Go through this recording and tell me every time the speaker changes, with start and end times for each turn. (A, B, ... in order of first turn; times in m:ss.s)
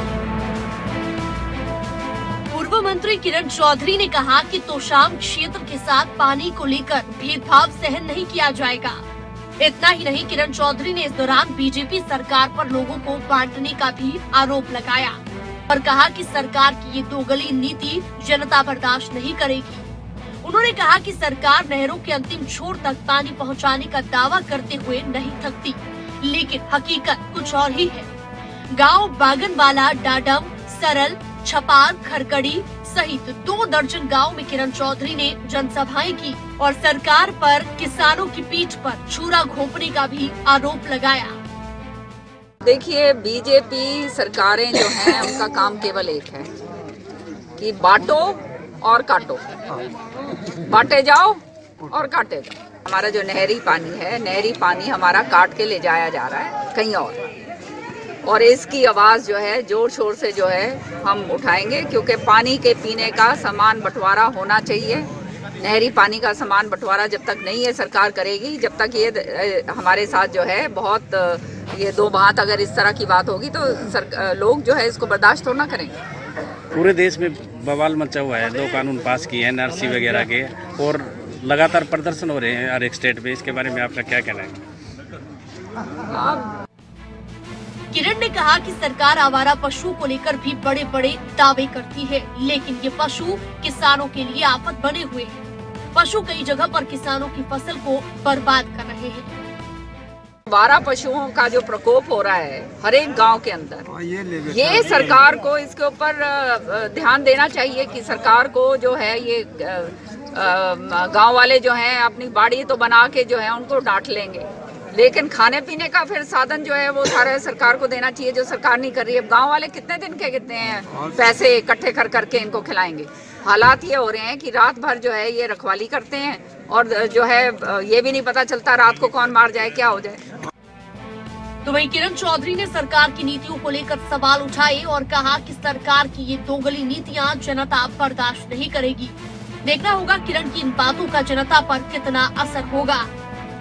0:02.5-0:09.0 A
0:09.6-0:15.2 A
0:15.7-0:19.9 A
0:20.4-0:28.1 A
0:28.7-0:41.4 A
0:42.6-0:46.5 B
0:47.6-0:49.4 B
0:50.6-0:57.2 B
0:58.2-1:16.0 B
1:16.7-1:24.6 C
1:26.1-1:26.5 B
1:27.9-1:35.4 A
1:35.9-1:39.4 A
1:40.5-1:43.9 B
1:44.4-2:10.2 B
2:11.6-2:23.1 A